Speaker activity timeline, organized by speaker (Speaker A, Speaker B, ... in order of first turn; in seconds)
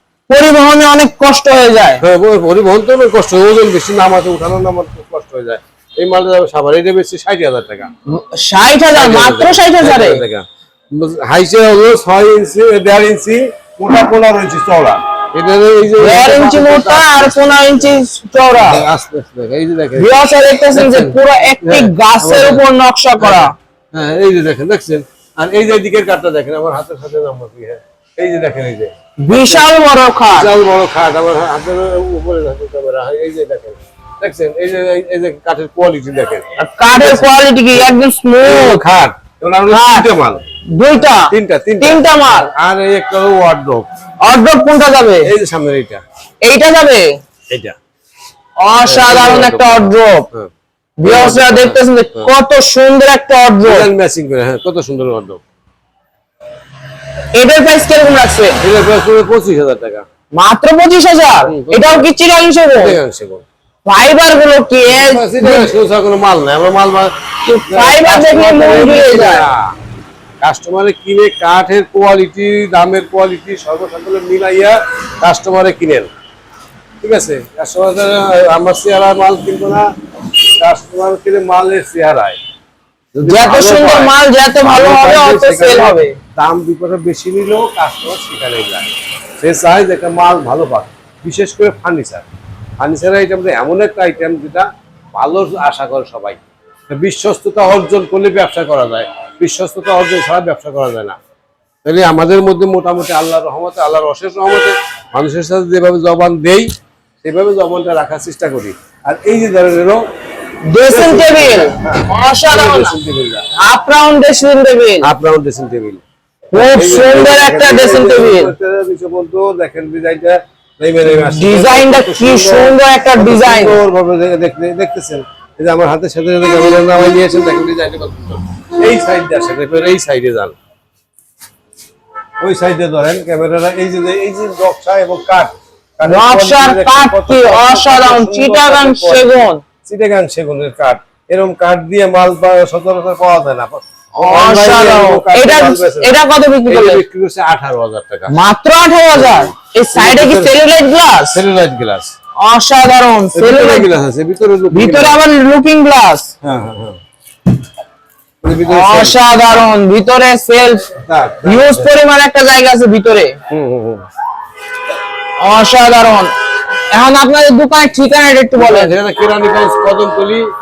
Speaker A: 0.3-2.0, 8.1-10.2, 16.0-18.8, 20.0-23.5, 29.2-30.5, 36.6-38.8, 39.7-40.1, 40.7-42.5, 44.2-45.3, 46.4-47.1, 48.6-50.3, 51.0-53.9, 57.3-58.6, 60.3-63.0, 63.9-65.7, 67.5-69.5, 83.2-86.2, 110.7-113.0, 113.6-115.1, 116.5-118.5, 121.1-123.8, 136.1-139.6, 144.2-147.0, 148.3-151.4, 152.4-153.9, 154.7-156.3, 158.7-160.9, 161.4-163.4, 165.4-166.3, 166.9-168.9
Speaker B: 2.0-7.9, 8.9-17.4, 18.6-20.2, 20.7-22.6, 23.2-29.7, 30.3-36.4, 37.0-40.4, 41.3-43.9, 45.2-46.0, 47.5-47.8, 48.9-50.5, 51.0-52.3, 53.6-55.4, 58.6-60.1, 61.5-62.1, 62.8-63.4, 64.9-67.1, 67.7-69.7, 70.4-76.1, 77.0-79.9, 80.6-82.4, 83.1-92.3, 92.8-101.2, 101.8-106.7, 107.2-110.0, 110.9-113.5, 115.0-116.0, 116.5-130.6, 132.4-148.3, 149.1-150.6, 151.3-152.1, 153.3-155.2, 156.4-157.0, 158.4-159.2, 161.1-161.9, 163.5-164.1, 168.6-170.5